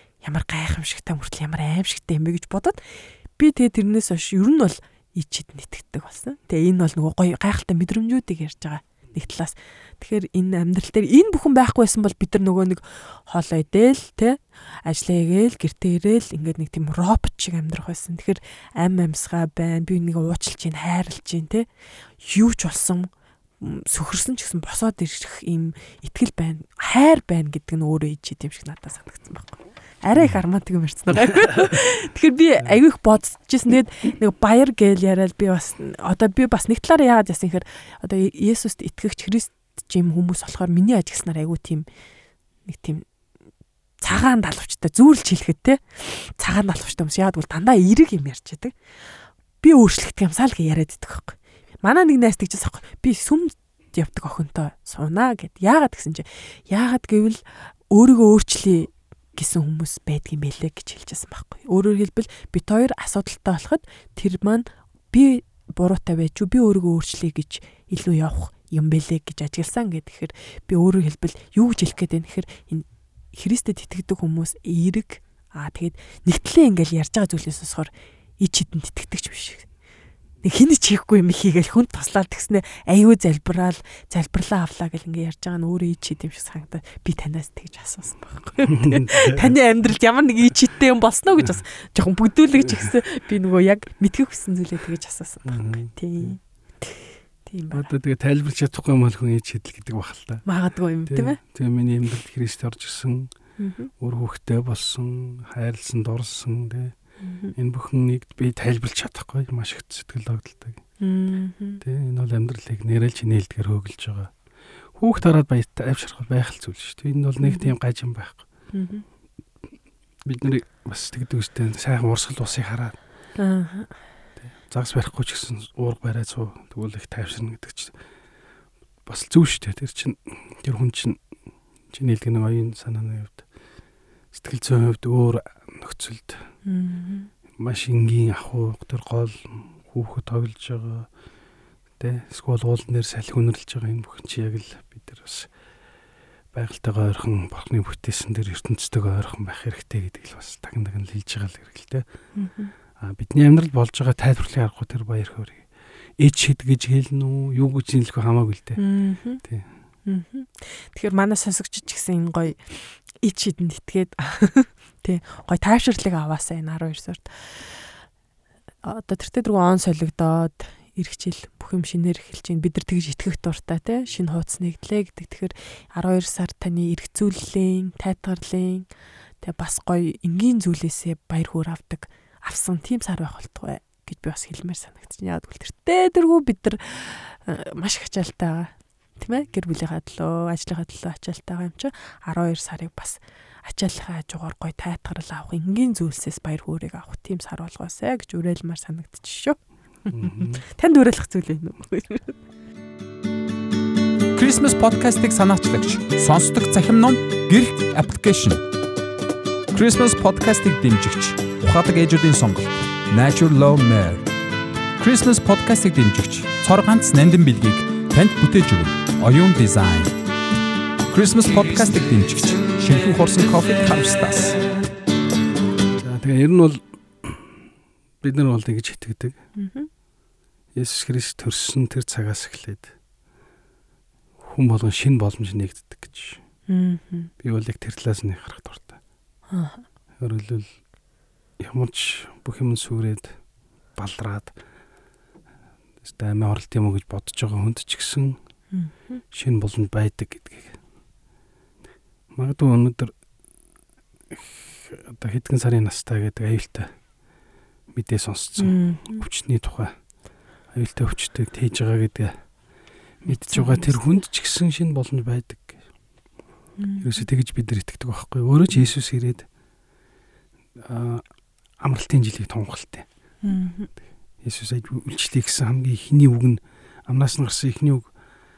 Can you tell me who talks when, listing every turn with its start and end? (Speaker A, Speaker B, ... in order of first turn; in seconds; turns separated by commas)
Speaker A: 0.2-2.8, Speaker A: 3.4-21.6, Speaker A: 22.2-41.9, Speaker A: 42.6-43.0, Speaker A: 44.0-48.7, Speaker A: 49.6-79.7, Speaker A: 80.4-97.9, Speaker B: 88.7-89.5, Speaker B: 92.6-92.9, Speaker B: 95.5-95.9, Speaker B: 97.7-100.4, Speaker A: 100.4-101.4, Speaker B: 101.1-103.3, Speaker A: 103.6-103.9, Speaker B: 104.0-106.9, Speaker A: 107.2-107.5, Speaker B: 107.5-110.8, Speaker A: 111.0-111.8, Speaker B: 111.8-114.3, Speaker B: 115.0-118.4, Speaker A: 117.4-117.7, Speaker A: 118.7-119.0, Speaker B: 120.2-123.0, Speaker A: 123.4-123.9, Speaker B: 124.6-127.9, Speaker B: 129.1-131.2, Speaker B: 131.9-133.4, Speaker B: 134.3-136.4, Speaker A: 136.7-137.3, Speaker B: 137.6-141.1, Speaker B: 142.0-145.5, Speaker B: 146.5-152.0, Speaker A: 152.4-152.7, Speaker B: 153.0-155.6, Speaker B: 156.2-158.8, Speaker A: 158.8-159.4, Speaker A: 160.1-167.8, Speaker A: 168.8-178.9, Speaker A: 179.4-202.4, Speaker B: 200.1-200.6, Speaker C: 204.3-208.6, Speaker C: 209.7-214.2, Speaker C: 215.0-220.1, Speaker C: 221.1-224.6, Speaker B: 226.0-227.5, Speaker B: 228.2-229.4, Speaker A: 229.6-229.9, Speaker B: 230.7-232.9, Speaker B: 234.4-236.4, Speaker A: 236.7-237.3, Speaker B: 237.4-239.0, Speaker A: 239.5-239.8, Speaker B: 240.2-240.7, Speaker B: 241.6-243.3, Speaker B: 244.0-244.5, Speaker B: 246.0-248.4, Speaker A: 248.7-249.2, Speaker B: 249.3-250.8, Speaker B: 252.3-253.1, Speaker B: 254.3-256.9, Speaker B: 257.9-259.9, Speaker A: 258.6-259.2, Speaker B: 260.7-262.3, Speaker B: 263.2-265.8, Speaker A: 263.3-264.0, Speaker A: 266.8-267.2, Speaker B: 267.0-269.4, Speaker B: 270.8-271.2, Speaker B: 271.8-273.1, Speaker A: 273.4-273.9, Speaker B: 274.4-278.1